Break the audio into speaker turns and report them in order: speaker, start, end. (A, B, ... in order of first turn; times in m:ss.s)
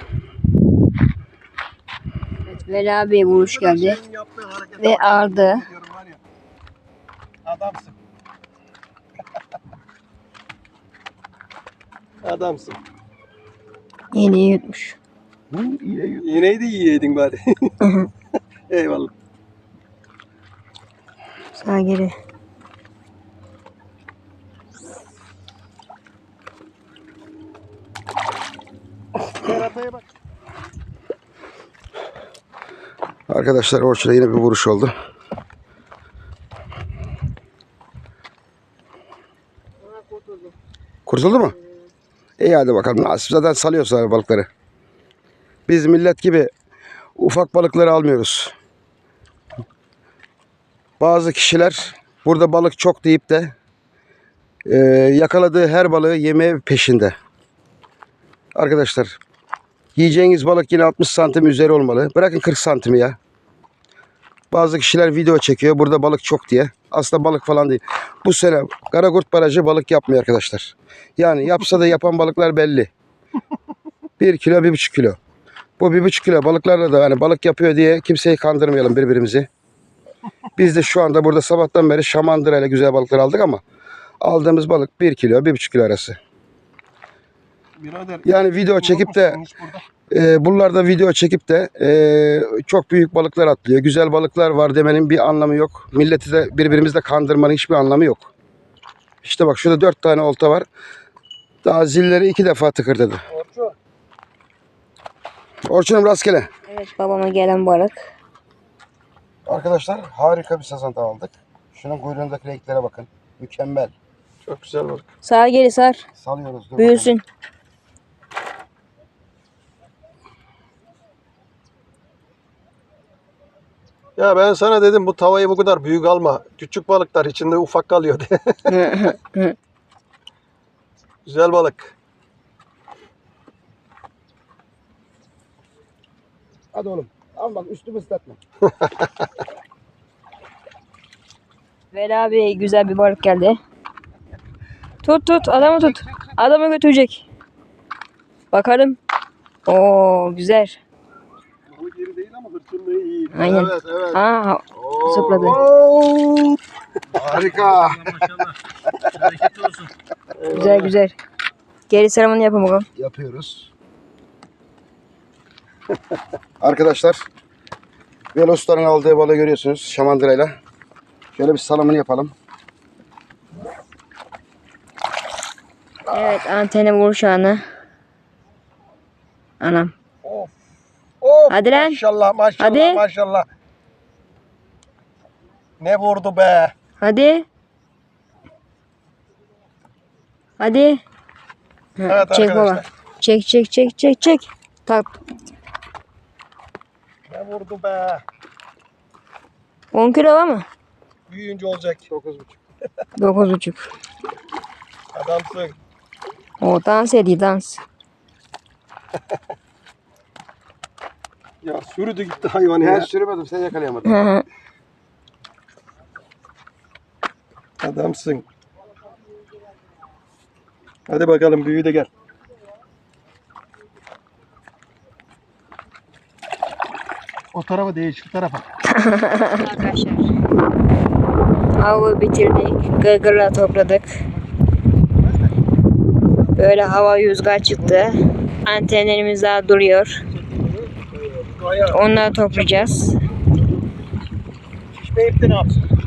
0:02.5-0:04.0 A
0:03.3-0:06.2 B
0:04.8-0:05.6 A
0:07.4-0:08.0 B
0:12.2-0:12.8 B
0:14.1-0:15.0 A
0:15.5-0:16.4 C
0:16.2-0:17.7 B
0:17.8-0:18.1 A
0:18.7-0:19.1 B
0:21.5-0:22.1 A
0:29.3-0:30.0 B
0:33.3-0:34.9 C
0:41.1-0:41.5 C
0:42.4-0:44.5 C
0:45.7-0:46.5 C
0:47.2-0:48.5 C
0:51.0-0:53.5 C
0:54.6-0:57.1 C
0:58.6-0:59.2 C
1:00.0-1:03.2 C
1:04.5-1:12.9 C
1:14.2-1:15.2 C
1:15.8-1:19.5 C
1:20.6-1:23.6 C
1:24.2-1:26.2 C
1:27.8-1:29.8 B
1:28.2-1:29.4 C
1:30.1-1:38.3 C
1:39.2-1:40.6 C
1:41.6-1:43.2 C
1:43.3-1:43.7 B
1:45.6-1:46.5 C
1:46.7-1:48.0 A
1:49.4-1:53.9 C
1:54.4-1:55.1 B
1:55.2-1:56.0 A
1:56.2-1:57.1 C
1:56.8-1:57.2 A
2:04.2-2:08.7 B
2:08.7-2:09.6 A
2:11.2-2:11.9 B
2:16.7-2:18.4 C
2:21.9-2:23.6 A
2:25.0-2:27.2 A
2:28.5-2:29.0 A
2:29.6-2:30.8 A
2:31.7-2:33.4 B
2:33.3-2:35.6 A
2:33.4-2:34.2 C
2:34.7-2:35.8 C
2:35.4-2:36.6 B
2:37.1-2:38.6 B
2:37.1-2:38.3 C
2:39.1-2:39.9 B
2:40.4-2:41.0 B
2:40.5-2:41.2 A
2:41.9-2:42.9 A
2:43.0-2:43.7 C
2:46.6-2:47.2 C
2:48.3-2:50.5 C
2:51.3-2:52.3 C
2:56.1-2:57.6 A
2:59.6-2:59.9 A
3:00.2-3:00.5 B
3:01.2-3:03.4 B
3:01.5-3:02.0 A
3:02.6-3:03.0 A
3:05.8-3:06.7 B
3:07.0-3:07.4 A
3:10.6-3:11.0 A
3:12.0-3:15.1 A
3:12.0-3:12.8 B
3:17.3-3:18.2 B
3:19.9-3:20.7 A
3:21.3-3:22.2 B
3:22.2-3:22.5 C
3:23.2-3:23.9 A
3:25.1-3:25.8 B
3:26.6-3:27.8 A
3:31.6-3:33.1 B
3:32.8-3:34.3 C
3:34.0-3:34.4 A
3:37.8-3:38.4 B
3:41.1-3:42.1 B
3:47.5-3:48.7 B
3:48.9-3:50.3 A
3:51.8-3:54.1 A
3:55.2-3:55.5 B
3:56.6-4:00.2 A
4:00.3-4:02.9 B
4:01.9-4:03.2 A
4:04.9-4:05.8 B